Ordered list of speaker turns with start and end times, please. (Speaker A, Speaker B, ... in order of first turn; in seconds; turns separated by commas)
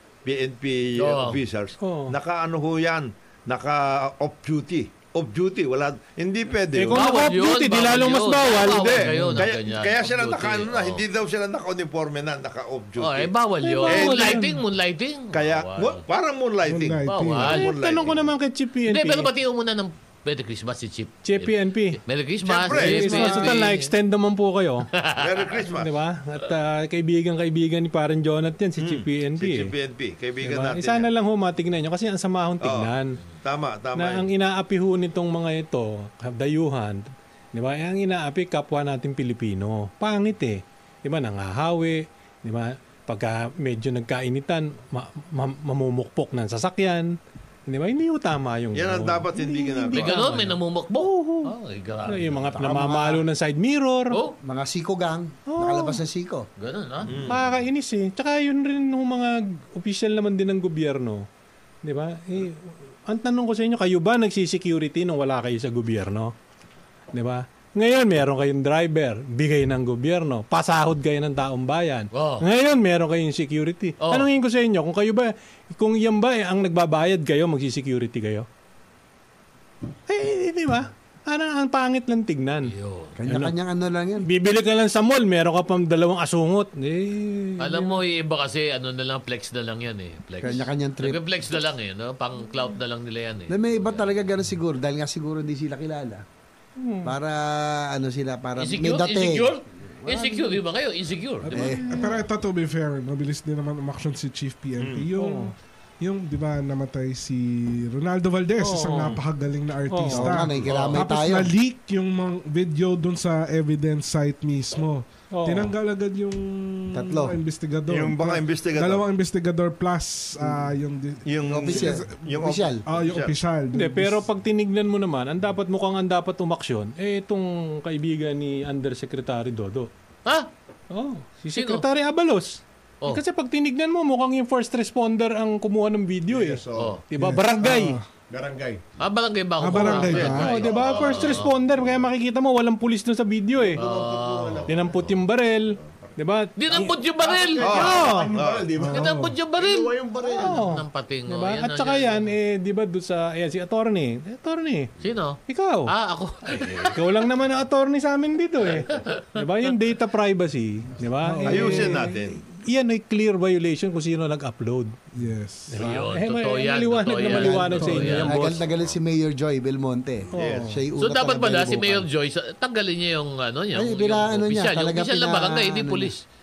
Speaker A: 0.2-7.0, Speaker B: 1.0-1.4, Speaker C: 1.8-2.1, Speaker C: 6.7-9.4, Speaker B: 6.9-11.0, Speaker A: 8.6-13.3, Speaker B: 13.0-16.0, Speaker C: 13.6-14.6, Speaker A: 13.9-14.3, Speaker A: 15.3-18.3, Speaker D: 16.6-17.6, Speaker B: 17.1-17.7, Speaker C: 17.4-19.3, Speaker B: 18.9-23.9, Speaker C: 21.2-22.0, Speaker A: 22.4-23.4, Speaker C: 22.7-24.9, Speaker B: 24.9-25.5, Speaker A: 25.1-25.9, Speaker C: 25.7-29.7, Speaker A: 28.8-31.1, Speaker C: 30.4-33.2, Speaker A: 32.6-32.9, Speaker A: 33.4-34.3, Speaker C: 33.9-51.5, Speaker A: 48.7-50.1, Speaker B: 49.9-52.5, Speaker C: 52.1-54.2, Speaker E: 52.5-53.2, Speaker B: 54.1-54.4, Speaker E: 54.4-56.5, Speaker C: 55.5-56.0, Speaker B: 56.6-57.2, Speaker A: 57.0-57.5, Speaker C: 57.3-61.2, Speaker C: 61.8-66.3, Speaker C: 67.1-78.5, Speaker B: 72.1-72.5, Speaker B: 74.0-74.2, Speaker C: 80.1-82.7, Speaker B: 82.6-83.2, Speaker E: 83.2-84.3, Speaker C: 83.3-83.5, Speaker C: 84.2-88.0, Speaker B: 87.6-94.1, Speaker E: 90.4-91.2, Speaker E: 93.5-96.2, Speaker C: 96.8-97.1, Speaker E: 97.0-100.6, Speaker B: 98.6-101.7, Speaker E: 101.5-102.1, Speaker C: 101.5-102.0, Speaker D: 101.9-122.2, Speaker A: 104.8-105.1, Speaker C: 105.2-105.5, Speaker C: 108.6-109.2, Speaker C: 109.9-110.3, Speaker E: 110.1-111.5, Speaker B: 110.7-111.0, Speaker C: 115.3-115.7, Speaker E: 116.9-117.4, Speaker A: 117.9-119.0, Speaker E: 120.4-120.7, Speaker A: 121.2-123.3, Speaker E: 121.5-122.8, Speaker D: 122.8-124.2, Speaker C: 123.7-129.9, Speaker C: 130.9-138.0, Speaker B: 131.5-131.8, Speaker F: 136.3-137.0, Speaker D: 137.2-138.0, Speaker F: 138.3-138.8, Speaker B: 139.0-141.5, Speaker D: 139.6-140.7, Speaker F: 139.8-142.1, Speaker C: 140.0-143.8, Speaker F: 143.6-146.2, Speaker B: 143.8-144.7, Speaker C: 144.7-146.9, Speaker B: 146.6-148.1, Speaker F: 146.7-150.6, Speaker A: 147.6-148.7, Speaker C: 147.7-148.3, Speaker D: 148.8-149.3, Speaker B: 148.9-152.3, Speaker C: 150.3-154.9, Speaker B: 155.0-157.2, Speaker C: 155.5-155.9, Speaker C: 156.9-164.9, Speaker B: 158.9-159.4, Speaker D: 161.2-162.1, Speaker A: 161.4-162.4, Speaker D: 165.1-165.8, Speaker C: 165.7-168.6, Speaker B: 165.8-168.8, Speaker E: 167.2-172.1, Speaker C: 170.3-170.8, Speaker A: 170.3-170.7, Speaker B: 171.0-176.2, Speaker E: 173.7-176.2